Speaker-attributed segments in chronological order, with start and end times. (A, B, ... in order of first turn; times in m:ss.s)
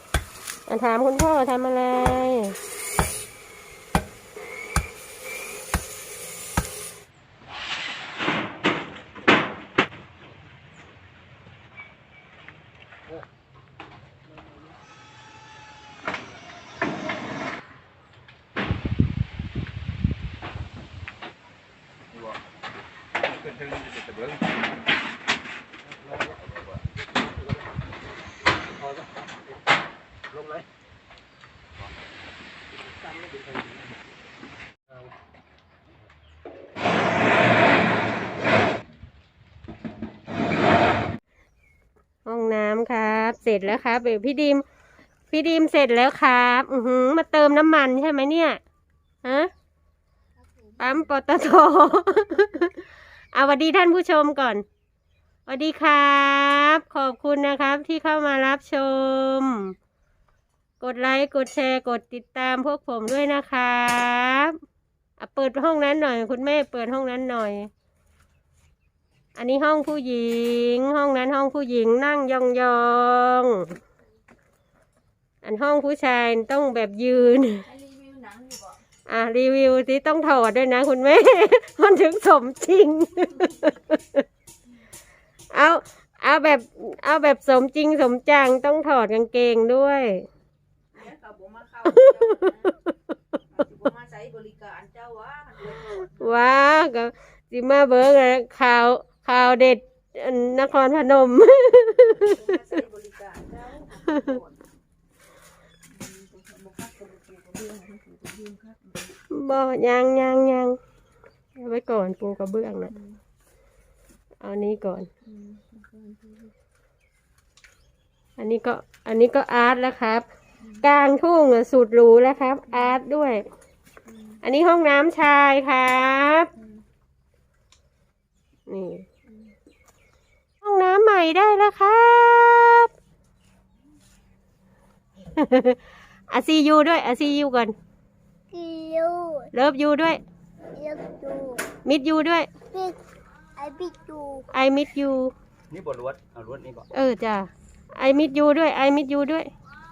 0:00.7-0:02.6 A
0:22.1-0:22.4 B
0:23.2-0:24.5 B
0:26.4-0:26.8 B
0:27.1-0:27.5 C
0:28.8-0:29.1 C
0:30.3-0:30.6 C
0:33.0-0:33.8 C
0:42.2-0:44.6 A
0:45.3-0:48.6 A
0:49.2-0:49.5 A
0:50.8-0:54.6 A
0:55.5-0:59.8 A
1:00.8-1:04.6 A
1:05.2-1:07.7 A
1:09.4-1:13.8 A
1:15.4-1:17.7 A
1:17.7-1:18.8 D
1:19.1-1:24.2 A
1:25.5-1:30.2 A
1:30.9-1:32.7 D
1:31.9-1:32.8 A
1:33.5-1:36.2 D
1:35.6-1:42.7 A
1:42.3-1:44.6 D
1:45.9-1:48.9 D
1:49.3-1:50.8 A
1:51.6-1:52.9 A
1:54.4-1:55.1 A
1:55.3-1:56.5 D
1:58.4-2:00.2 A
2:00.8-2:03.4 A
2:04.4-2:06.5 A
2:08.7-2:09.1 A
2:10.6-2:12.9 A
2:15.3-2:17.8 A
2:18.5-2:19.5 E
2:19.5-2:20.2 A
2:20.8-2:21.6 E
2:21.8-2:22.5 A
2:22.7-2:23.0 E
2:23.6-2:24.5 E
2:24.5-2:25.3 A
2:25.7-2:26.9 B
2:26.9-2:29.5 A